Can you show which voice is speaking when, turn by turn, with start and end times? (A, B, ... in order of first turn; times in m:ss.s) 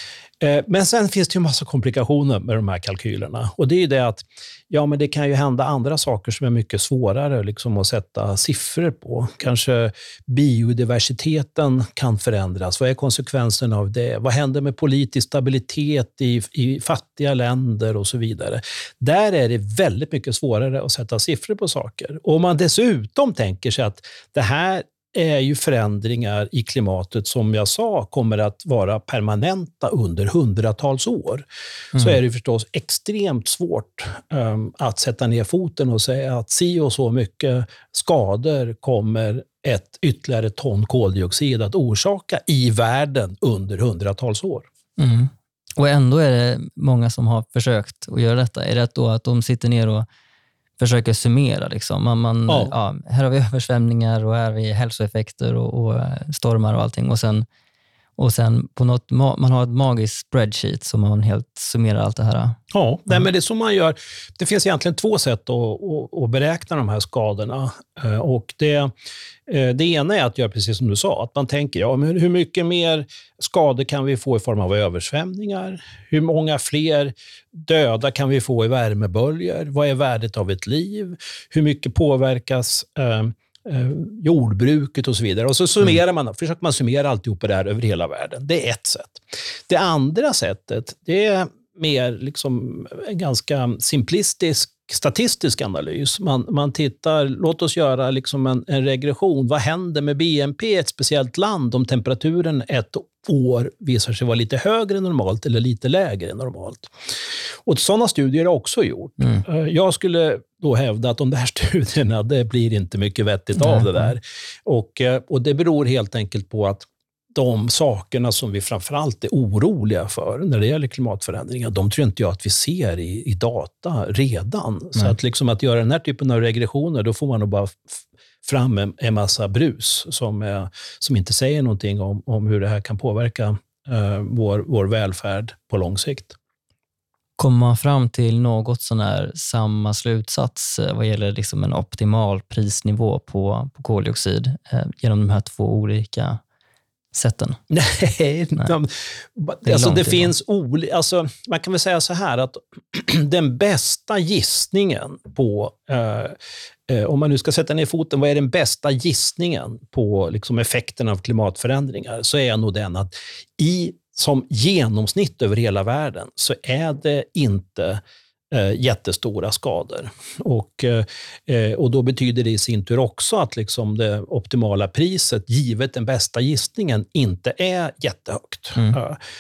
0:00.4-0:44.7 A
0:45.0-0:50.1 B
0:50.8-0:57.5 B
0:58.2-1:02.6 B
1:02.7-1:08.9 A
1:09.5-1:46.9 A
1:47.6-2:16.4 A
1:53.6-1:54.1 B
2:17.4-2:26.4 B
2:27.1-2:27.6 B
2:27.7-2:36.4 A
2:29.6-2:30.3 B
2:36.9-2:59.2 A